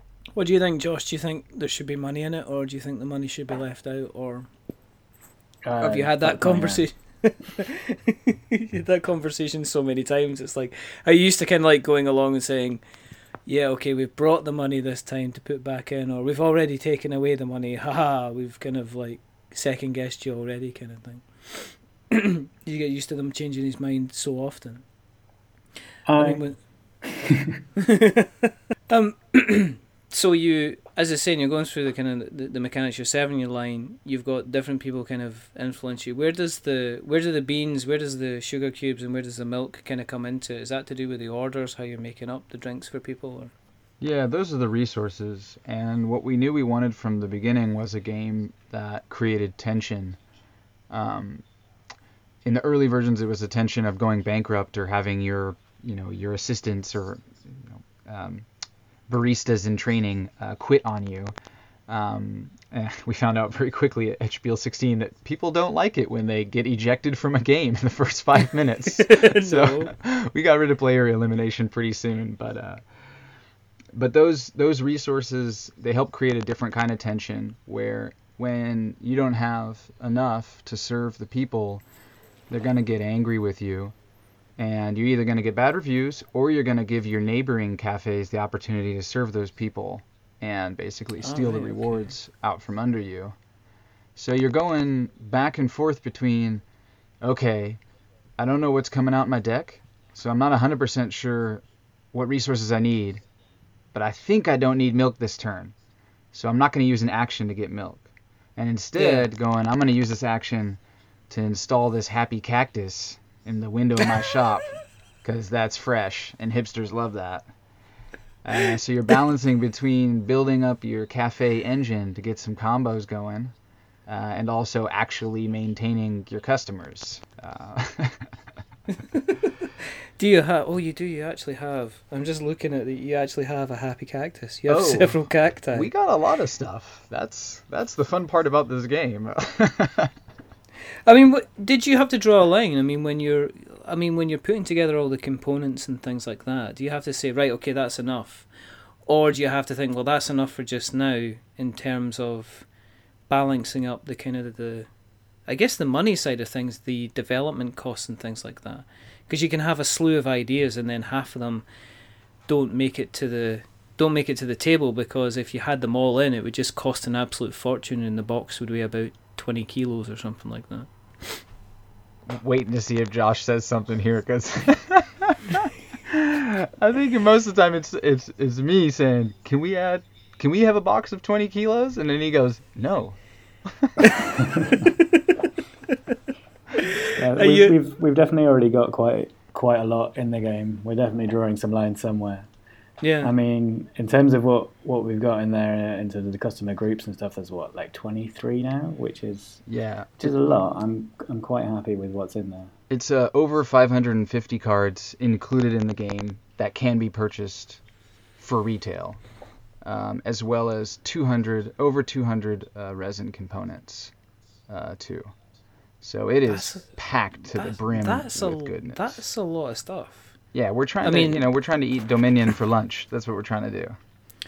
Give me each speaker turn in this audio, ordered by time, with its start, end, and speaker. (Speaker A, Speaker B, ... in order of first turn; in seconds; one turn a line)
Speaker A: 0.3-4.5
Speaker B: 5.6-6.8
Speaker A: 5.8-12.8
Speaker A: 13.5-24.8
Speaker B: 26.1-26.5
Speaker A: 26.2-26.6
Speaker B: 27.1-27.6
Speaker A: 27.8-43.5
Speaker C: 44.0-50.2
Speaker C: 50.9-51.4
Speaker C: 52.5-58.5
Speaker C: 59.1-61.3
Speaker C: 61.9-72.8
Speaker A: 68.9-69.9
Speaker C: 73.9-81.8
Speaker C: 82.5-84.0
Speaker C: 84.6-93.4
Speaker A: 91.2-92.1
Speaker C: 94.2-96.6
Speaker C: 97.2-97.8
Speaker C: 98.4-103.2
Speaker C: 103.9-105.7
Speaker C: 106.3-117.5
Speaker A: 109.0-109.3
Speaker C: 118.4-123.5
Speaker C: 124.1-128.3
Speaker A: 128.9-135.9
Speaker C: 134.7-140.1
Speaker A: 141.1-148.5
Speaker A: 149.1-152.7
Speaker A: 153.3-154.9
Speaker A: 155.5-161.7
Speaker A: 162.5-171.4
Speaker C: 172.3-184.1
Speaker B: 184.4-184.8
Speaker A: 185.0-185.3
Speaker A: 186.8-187.8
Speaker B: 187.1-192.5
Speaker A: 193.0-193.3
Speaker B: 193.2-199.6
Speaker C: 199.7-200.2
Speaker B: 200.2-202.7
Speaker C: 202.9-207.8
Speaker C: 208.4-209.2
Speaker C: 209.8-214.1
Speaker C: 214.7-215.3
Speaker C: 216.0-219.2
Speaker A: 216.5-216.9
Speaker A: 217.5-220.3
Speaker C: 220.5-224.0
Speaker A: 221.0-221.5